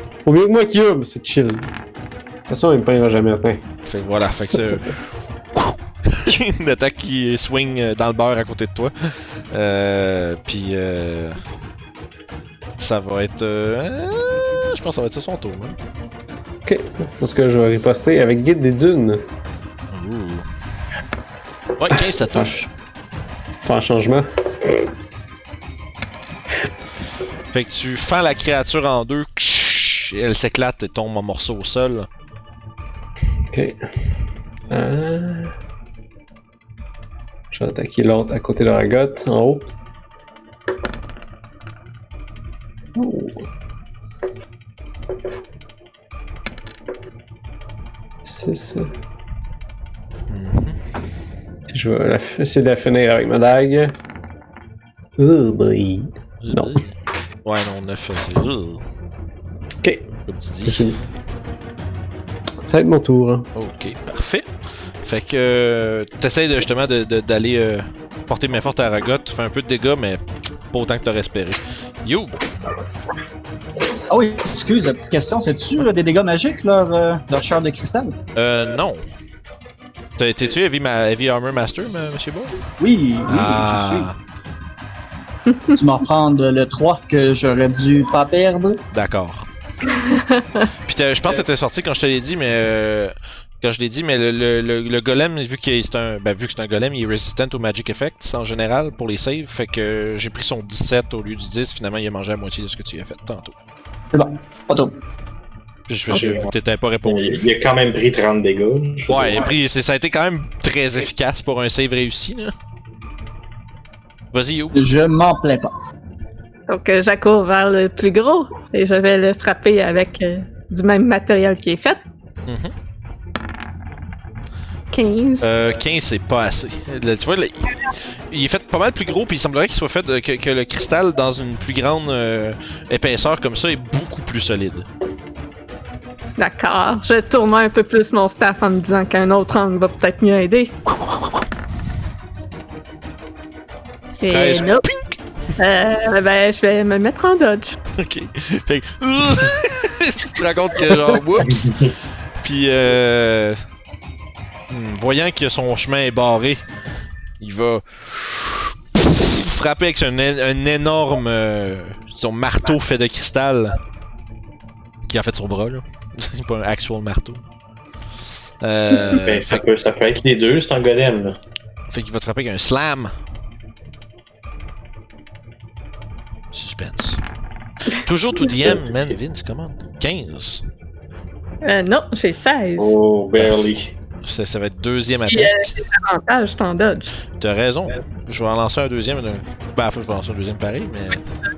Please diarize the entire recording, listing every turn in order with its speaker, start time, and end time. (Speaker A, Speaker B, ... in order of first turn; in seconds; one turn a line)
Speaker A: 0.2-1.7
Speaker A: 2.5-3.6
Speaker B: 3.8-11.4
Speaker B: 12.8-15.8
Speaker A: 16.6-19.2
Speaker B: 19.9-20.4
Speaker B: 21.8-22.7
Speaker A: 23.6-24.9
Speaker B: 27.5-32.1
Speaker A: 33.5-33.8
Speaker A: 34.7-35.5
Speaker A: 37.5-39.7
Speaker A: 42.9-43.4
Speaker A: 48.2-48.9
Speaker B: 50.3-50.8
Speaker A: 51.7-53.9
Speaker A: 55.2-56.8
Speaker B: 56.4-58.8
Speaker B: 60.2-60.9
Speaker A: 60.6-61.0
Speaker A: 62.6-63.5
Speaker B: 63.5-64.5
Speaker B: 65.0-72.4
Speaker C: 74.1-78.1
Speaker B: 78.3-79.0
Speaker B: 80.2-82.5
Speaker C: 82.8-84.1
Speaker B: 83.2-84.2
Speaker D: 85.5-85.7
Speaker C: 85.8-88.8
Speaker B: 88.9-89.5
Speaker D: 90.1-90.7
Speaker B: 90.8-103.5
Speaker C: 104.1-104.9
Speaker B: 105.9-107.5
Speaker D: 106.1-106.4
Speaker E: 107.0-109.4
Speaker B: 109.1-112.5
Speaker B: 114.3-114.9
Speaker C: 114.7-115.7
Speaker D: 116.7-122.0
Speaker B: 122.5-122.7
Speaker D: 124.9-125.5
Speaker B: 125.4-134.9
Speaker D: 136.4-140.7
Speaker B: 140.9-141.4
Speaker D: 144.2-144.9
Speaker B: 144.3-145.2
Speaker D: 145.6-147.8
Speaker B: 147.9-151.7
Speaker E: 151.5-151.9
Speaker B: 152.4-153.6
Speaker B: 154.7-156.6
Speaker B: 157.4-163.8
Speaker B: 165.1-167.4
Speaker B: 168.6-169.6
Speaker E: 169.2-171.3
Speaker B: 171.9-173.1
Speaker B: 176.5-177.2
Speaker B: 178.0-180.6
Speaker D: 181.6-182.9
Speaker E: 182.8-183.9
Speaker B: 183.4-183.6
Speaker B: 184.2-185.7
Speaker D: 185.3-187.1
Speaker B: 187.4-191.2